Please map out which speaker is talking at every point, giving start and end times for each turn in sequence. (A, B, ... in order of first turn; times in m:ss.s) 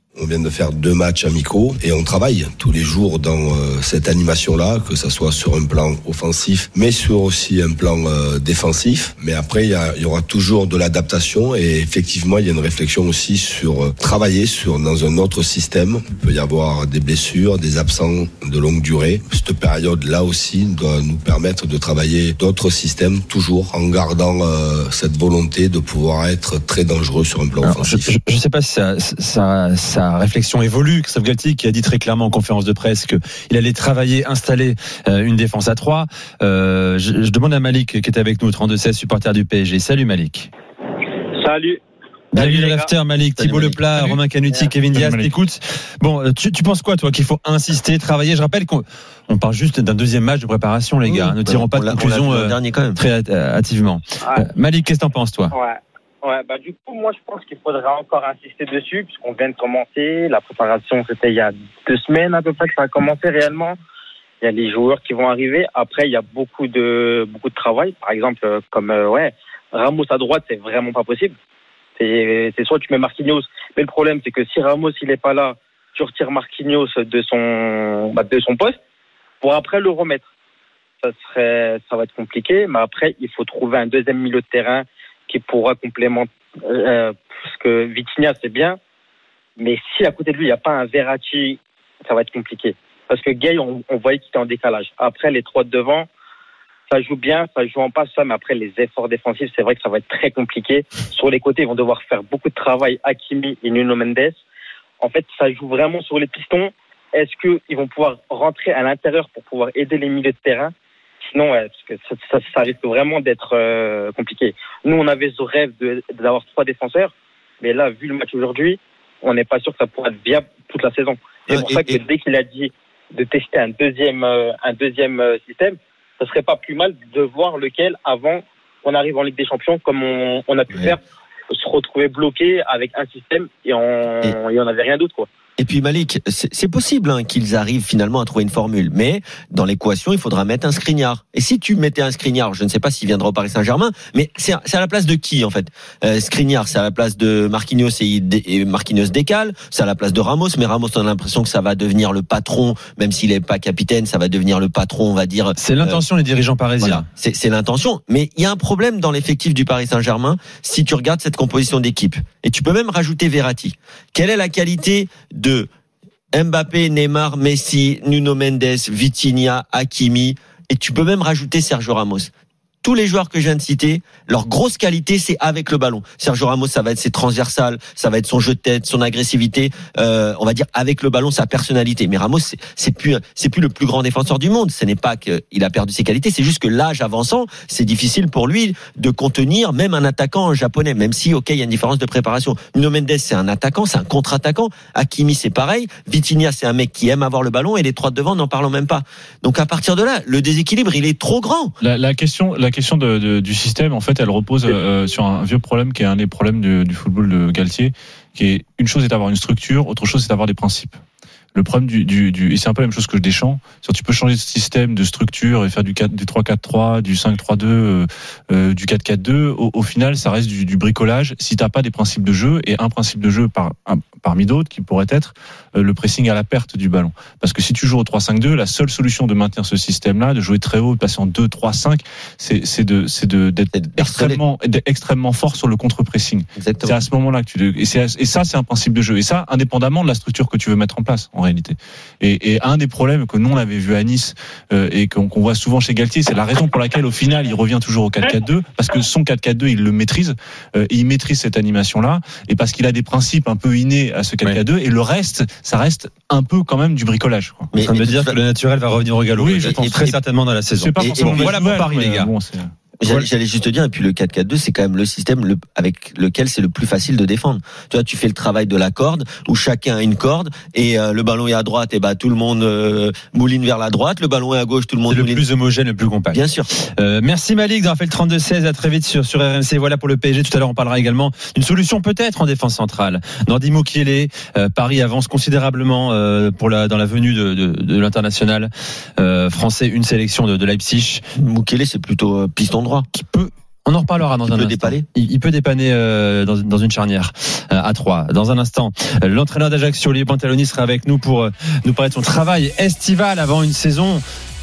0:00.2-0:28.1 A
0:27.6-0:40.5 B
0:41.0-0:41.8 C
0:42.4-0:42.9 C
0:42.4-0:55.6 B
0:43.4-0:43.8 D
0:44.9-0:45.3 E
0:51.0-0:53.0 D
0:55.5-1:03.8 C
1:04.4-1:11.3 C
1:12.0-1:18.8 C
1:19.4-1:20.2 C
1:21.0-1:28.8 C
1:29.6-1:36.1 C
1:36.9-1:44.4 C
1:45.0-2:15.3 C
2:01.5-2:02.0 D
2:15.6-2:36.0 D
2:35.6-2:37.0 B
2:36.8-2:45.7 D
2:46.3-2:52.3 D
2:52.8-3:21.7 D
3:21.8-3:31.0 E
3:31.5-4:17.7 E
3:53.7-3:54.4 D
3:56.6-3:57.0 D
4:17.7-4:18.4 D
4:17.8-4:22.3 B
4:19.4-4:19.8 E
4:19.6-4:20.2 D
4:20.8-4:22.7 E
4:21.0-4:21.5 D
4:23.0-4:35.4 D
4:35.1-4:36.4 B
4:36.3-4:36.7 D
4:37.0-4:51.2 B
4:51.4-4:53.1 D
4:53.1-5:04.2 B
4:54.4-4:55.0 D